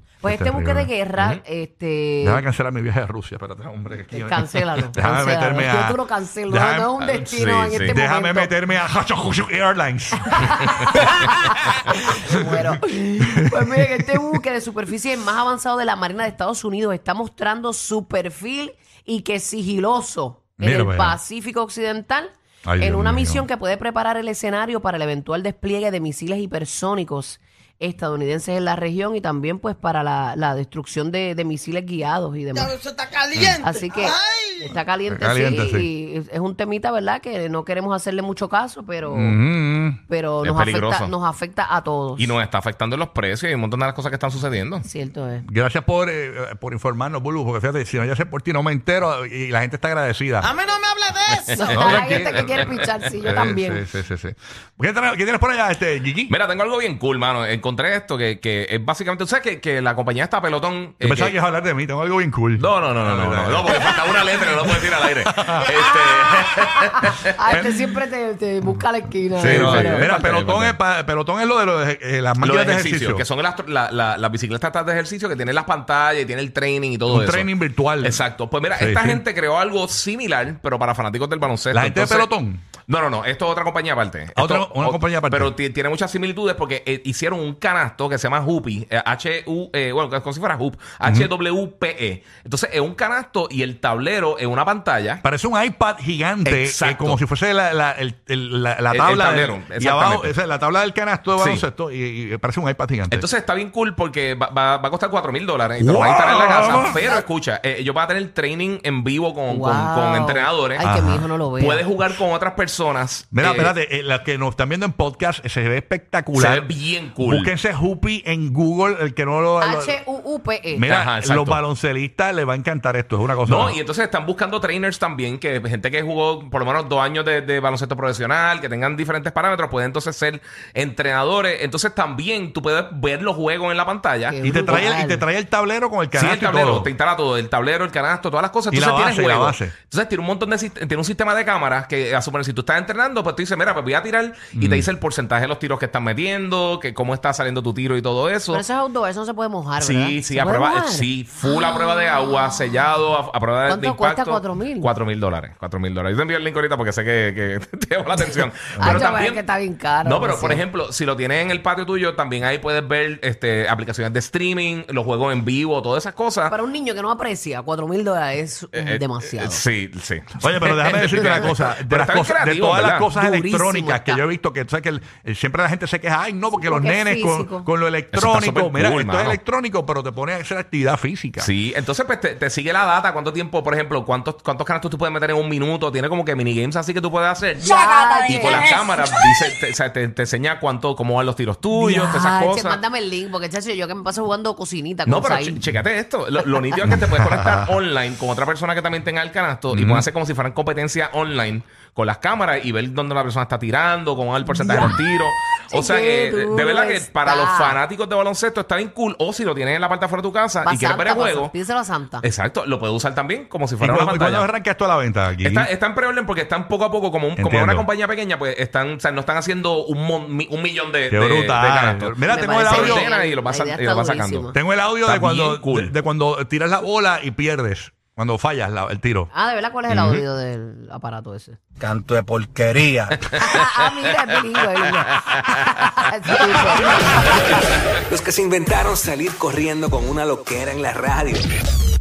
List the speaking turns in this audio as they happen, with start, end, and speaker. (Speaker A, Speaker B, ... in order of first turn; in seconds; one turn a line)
Speaker A: 0.2-2.5
Speaker B: 0.2-0.9
Speaker B: 2.2-7.1
Speaker A: 4.1-8.5
Speaker C: 7.1-8.0
Speaker B: 7.7-11.8
Speaker A: 10.4-11.2
Speaker A: 11.9-32.8
Speaker B: 13.2-14.2
Speaker B: 20.6-21.2
Speaker B: 22.6-23.5
Speaker D: 32.7-33.6
Speaker A: 33.4-39.4
Speaker B: 35.1-35.9
Speaker B: 39.1-40.0
Speaker A: 40.1-42.3
Speaker C: 40.4-41.1
Speaker C: 42.2-44.9
Speaker A: 44.8-45.5
Speaker B: 45.5-50.5
Speaker D: 50.5-51.6
Speaker C: 51.3-52.1
Speaker A: 51.5-53.9
Speaker B: 51.7-56.3
Speaker C: 56.3-61.4
Speaker B: 61.0-64.0
Speaker C: 62.6-67.6
Speaker B: 64.6-65.7
Speaker A: 65.8-70.1
Speaker B: 67.5-67.9
Speaker B: 69.4-73.2
Speaker C: 69.4-70.8
Speaker C: 72.4-82.3
Speaker B: 77.1-78.2
Speaker B: 78.8-79.2
Speaker B: 81.7-82.6
Speaker C: 82.9-95.2
Speaker B: 84.4-85.5
Speaker B: 91.0-91.3
Speaker B: 95.2-103.3
Speaker C: 96.5-97.2
Speaker C: 98.9-100.3
Speaker C: 101.4-101.7
Speaker C: 103.1-110.9
Speaker B: 105.8-107.1
Speaker A: 109.5-111.9
Speaker B: 110.8-111.3
Speaker C: 111.6-113.7
Speaker B: 113.3-120.0
Speaker C: 116.3-117.5
Speaker A: 119.6-120.9
Speaker B: 120.7-123.8
Speaker C: 120.9-121.6
Speaker C: 123.4-134.4
Speaker A: 134.3-135.3
Speaker B: 134.4-136.9
Speaker C: 136.1-148.6
Speaker B: 138.7-139.8
Speaker B: 144.6-144.9
Speaker A: 148.5-151.1
Speaker C: 149.8-159.4
Speaker A: 153.7-154.9
Speaker B: 158.8-159.1
Speaker A: 158.8-160.7
Speaker C: 160.0-166.6
Speaker A: 166.5-169.6
Speaker C: 168.7-173.1
Speaker B: 170.4-181.5
Speaker A: 171.1-171.5
Speaker A: 173.2-174.2
Speaker A: 176.6-177.7
Speaker C: 178.1-179.4
Speaker C: 181.4-187.8
Speaker A: 187.6-188.8
Speaker D: 187.7-189.2
Speaker C: 188.3-192.8
Speaker A: 191.7-195.6
Speaker C: 195.1-211.5
Speaker B: 196.8-197.8
Speaker B: 199.7-200.1
Speaker B: 204.6-205.0
Speaker A: 205.7-207.8
Speaker A: 210.6-212.2
Speaker C: 212.2-214.5
Speaker B: 213.8-215.7
Speaker C: 215.4-224.5
Speaker B: 217.4-217.9
Speaker B: 221.1-223.1
Speaker A: 222.3-224.6
Speaker B: 224.5-229.3
Speaker C: 225.1-225.9
Speaker A: 229.3-231.6
Speaker C: 229.9-230.2
Speaker E: 231.8-233.2
Speaker A: 233.3-237.4
Speaker E: 238.1-241.5